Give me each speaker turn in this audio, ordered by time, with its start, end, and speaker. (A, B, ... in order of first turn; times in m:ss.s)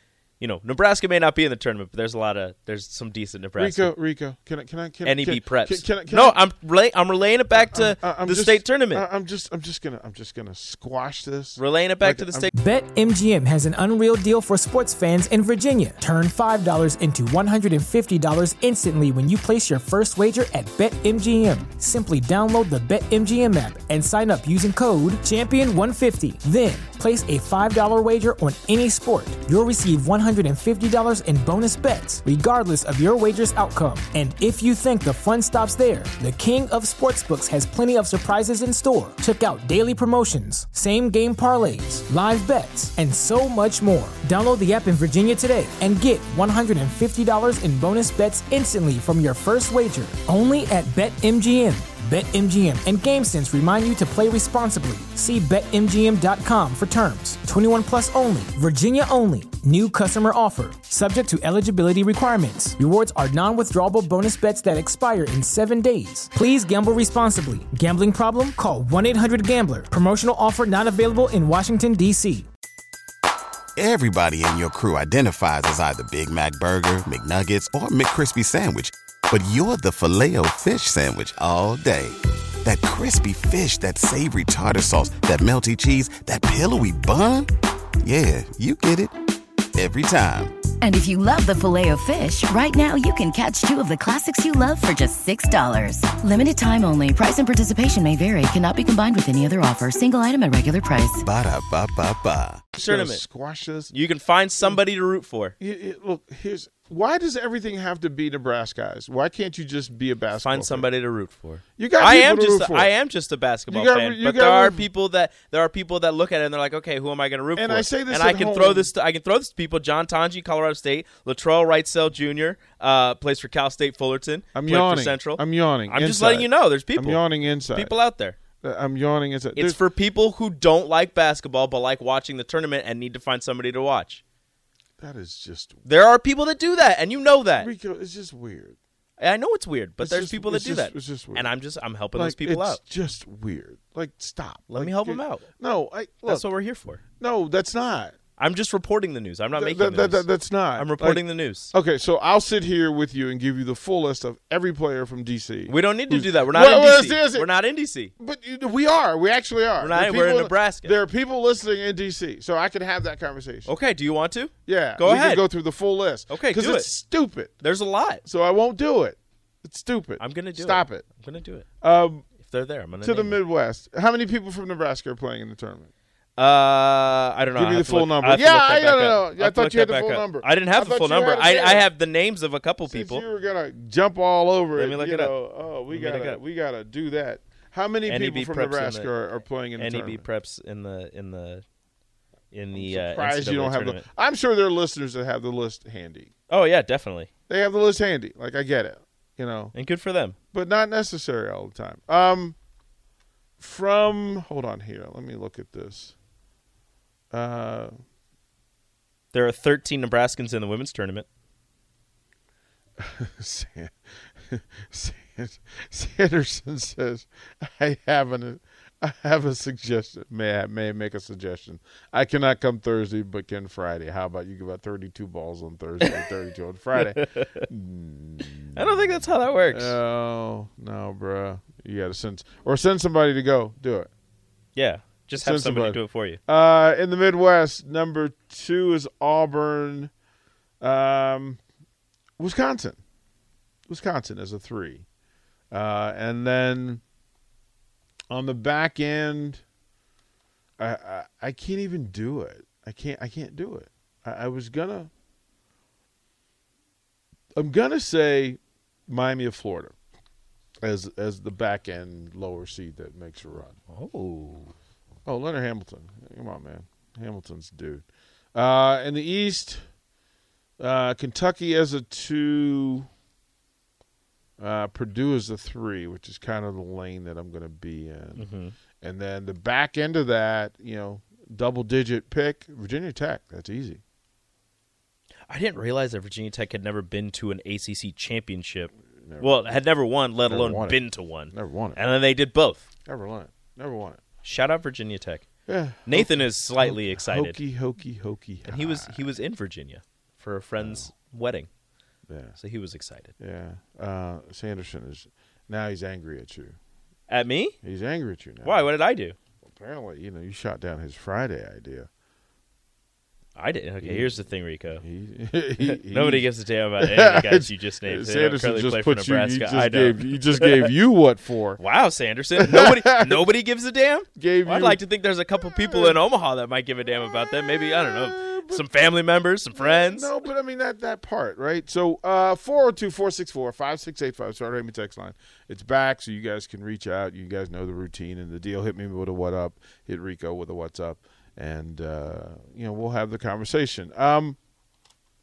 0:00.4-0:03.9 A
0:03.6-0:06.4 B
0:05.0-0:09.1 A
0:07.6-0:12.5 B
0:11.6-0:12.5 A
0:12.5-1:12.4 C
1:13.8-1:27.5 D
1:28.0-1:29.1 D
1:29.7-1:30.6 D
1:30.8-1:41.2 E
1:41.2-1:42.6 D
1:42.8-1:43.9 B
1:42.8-1:43.2 A
1:43.9-1:45.6 A
1:45.6-1:50.9 B
1:50.3-2:08.4 A
1:51.8-1:52.9 B
1:53.7-1:54.9 B
1:57.6-1:58.9 B
2:04.5-2:08.0 B
2:08.6-2:09.8 B
2:09.5-2:14.2 A
2:15.0-2:15.8 B
2:15.8-2:17.7 A
2:17.6-2:18.8 B
2:19.2-2:22.8 A
2:20.0-2:21.5 B
2:22.1-2:26.4 B
2:24.7-2:25.5 A
2:26.2-2:27.0 A
2:27.2-2:28.2 B
2:28.4-2:31.7 A
2:29.5-2:37.5 B
2:35.7-2:38.1 A
2:38.2-2:43.7 B
2:39.8-2:41.0 A
2:43.6-2:45.4 A
2:44.6-2:47.6 B
2:46.3-2:46.9 A
2:47.6-2:48.2 A
2:48.2-2:51.0 B
2:50.2-2:51.7 A
2:51.8-2:52.2 B
2:52.3-2:53.4 A
2:53.0-2:55.9 B
2:56.4-3:03.2 A
2:57.5-3:01.9 B
3:02.9-3:10.2 B
3:04.8-3:05.3 A
3:05.9-3:06.4 A
3:08.0-3:09.1 A
3:09.7-3:11.6 A
3:12.5-3:14.1 A
3:12.7-3:16.3 B
3:16.5-3:17.3 A
3:17.5-3:19.7 B
3:19.7-3:20.4 A
3:20.5-3:22.6 B
3:23.6-3:26.1 B
3:27.3-3:28.0 B
3:29.3-3:31.3 A
3:33.0-3:33.9 B
3:34.5-3:49.2 B
3:46.9-3:47.6 A
3:48.7-3:50.0 A
3:49.7-3:54.1 B
3:54.8-3:56.4 A
3:55.4-4:00.1 B
4:00.8-4:01.6 B
4:02.4-4:03.0 B
4:03.9-4:05.0 B
4:05.7-4:07.0 B
4:08.3-4:09.6 B
4:10.8-4:15.1 B
4:17.6-4:19.9 B
4:20.8-4:23.8 B
4:23.9-4:24.7 A
4:25.2-4:29.9 B
4:30.8-4:33.1 B
4:34.6-4:44.0 B
4:38.4-4:38.7 A
4:45.5-4:52.9 A
4:49.2-4:49.8 B
4:50.4-4:52.0 B
4:53.0-4:54.2 B
4:54.4-4:55.4 A
4:55.7-4:59.3 B
4:56.0-4:57.6 A
4:58.6-5:01.7 A
5:00.8-5:01.1 B
5:02.3-5:02.6 B
5:02.6-5:03.3 A
5:03.4-5:06.8 B
5:07.3-5:07.8 A
5:07.8-5:08.9 B
5:08.6-5:09.4 A
5:09.6-5:12.1 B
5:13.6-5:15.0 A
5:14.0-5:14.3 B
5:15.0-5:16.5 B
5:15.8-5:20.9 A
5:17.0-5:21.8 B
5:21.8-5:30.4 A
5:22.6-5:23.4 B
5:24.4-5:25.0 B
5:25.6-5:26.2 B
5:27.1-5:28.9 B
5:29.7-5:44.6 B